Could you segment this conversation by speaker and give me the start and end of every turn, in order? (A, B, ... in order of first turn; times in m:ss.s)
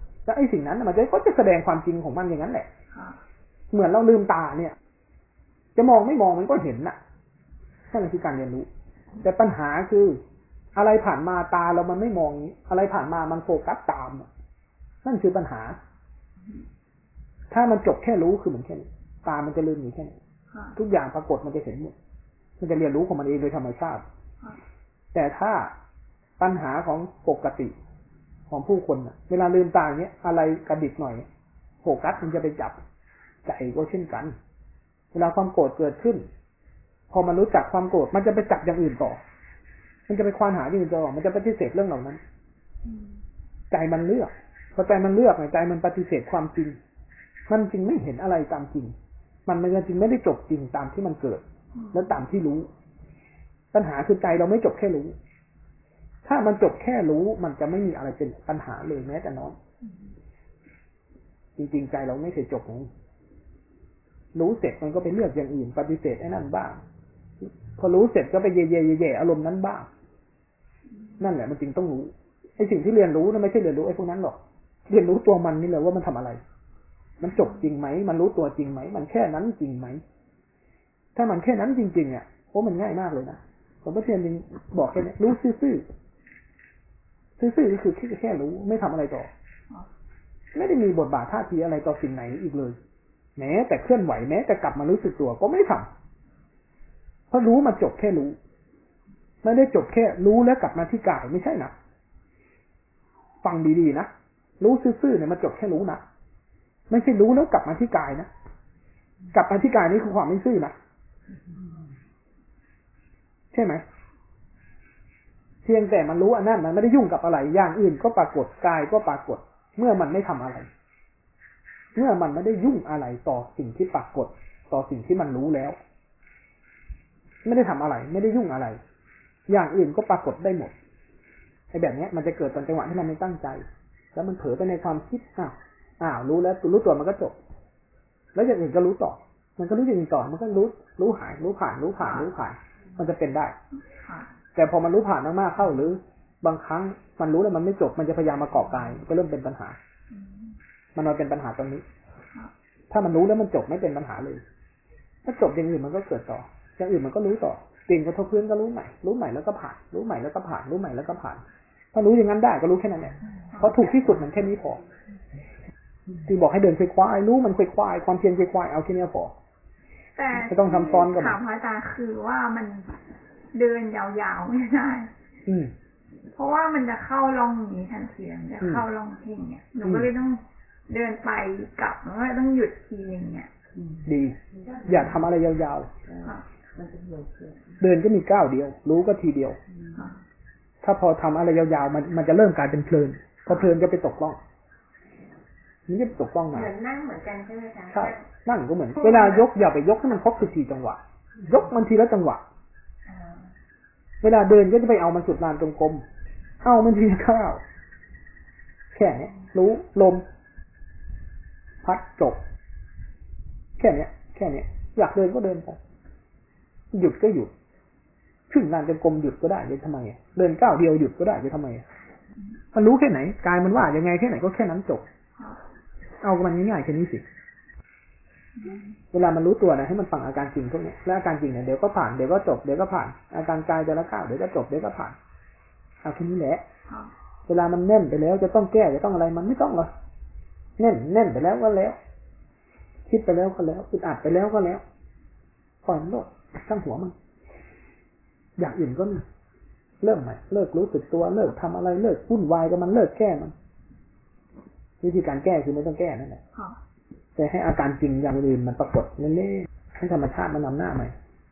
0:00.2-0:02.7 A
0:02.9-0:03.2 B
0:03.7-0:04.8 A
0:05.7-0:07.0 A
0:07.9-0:08.7 A
0:09.2-0:10.2 A
0:10.7-0:14.3 A
0:15.0-0:15.8 A
0:17.5-0:20.2 A
0:20.5-0:20.8 B
0:20.8-0:21.9 A
0:22.6-0:24.0 A
0:25.1-0:25.7 A
0:26.4-0:27.7 A
0:28.5-0:31.3 A
0:31.8-0:32.8 A
0:33.4-0:34.3 A
0:35.1-0:36.3 A
0:37.1-0:39.2 A
0:40.1-0:42.2 A
0:42.8-0:43.2 B
0:43.7-0:46.8 A
0:47.5-0:48.9 A
0:49.4-0:52.7 A
0:51.7-0:52.1 B
0:53.7-0:55.2 A
0:56.2-0:59.5 A
1:01.6-1:02.9 A
1:04.3-1:06.8 A
1:07.4-1:09.9 A
1:11.2-1:16.4 A
1:17.2-1:20.0 A
1:21.1-1:25.9 A
1:27.4-1:29.3 A
1:30.5-1:32.8 A
1:33.4-1:35.9 A
1:37.3-1:38.4 A
1:39.4-1:41.7 A
1:43.4-1:46.0 A
1:46.9-1:48.3 A
1:49.3-1:50.7 A
1:53.5-1:53.8 A
1:55.6-2:00.7 A
2:01.9-2:05.8 A
2:07.4-2:08.8 A
2:09.5-2:10.7 A
2:11.7-2:17.4 A
2:18.3-2:23.6 A
2:22.0-2:22.3 B
2:23.9-2:24.3 B
2:24.5-2:29.8 A
2:30.1-2:30.6 B
2:30.9-2:31.8 A
2:32.9-2:34.4 A
2:35.2-2:41.4 A
2:41.9-2:44.8 A
2:43.5-2:43.8 B
2:46.2-2:49.3 A
2:50.2-2:53.0 B
2:50.3-2:51.4 A
2:53.5-2:55.1 B
2:55.4-2:55.7 A
2:56.3-3:03.5 B
2:58.6-2:58.8 A
2:59.8-3:00.1 A
3:04.0-3:06.0 A
3:06.6-3:07.8 C
3:07.8-3:09.6 A
3:10.8-3:14.4 A
3:15.9-3:16.7 A
3:16.8-3:18.0 C
3:17.9-3:22.4 A
3:24.2-3:26.0 A
3:26.6-3:27.6 A
3:28.9-3:30.2 A
3:31.8-3:32.4 A
3:33.8-3:35.8 A
3:36.9-3:37.5 A
3:38.5-3:41.8 A
3:42.7-3:45.0 A
3:46.2-3:47.2 A
3:48.6-3:49.0 B
3:49.1-3:55.2 A
3:56.0-3:56.6 A
3:57.5-3:59.9 A
4:00.8-4:02.0 A
4:03.0-4:04.8 A
4:05.8-4:07.1 A
4:08.6-4:09.2 A
4:10.0-4:13.5 A
4:15.0-4:16.4 A
4:17.4-4:21.1 A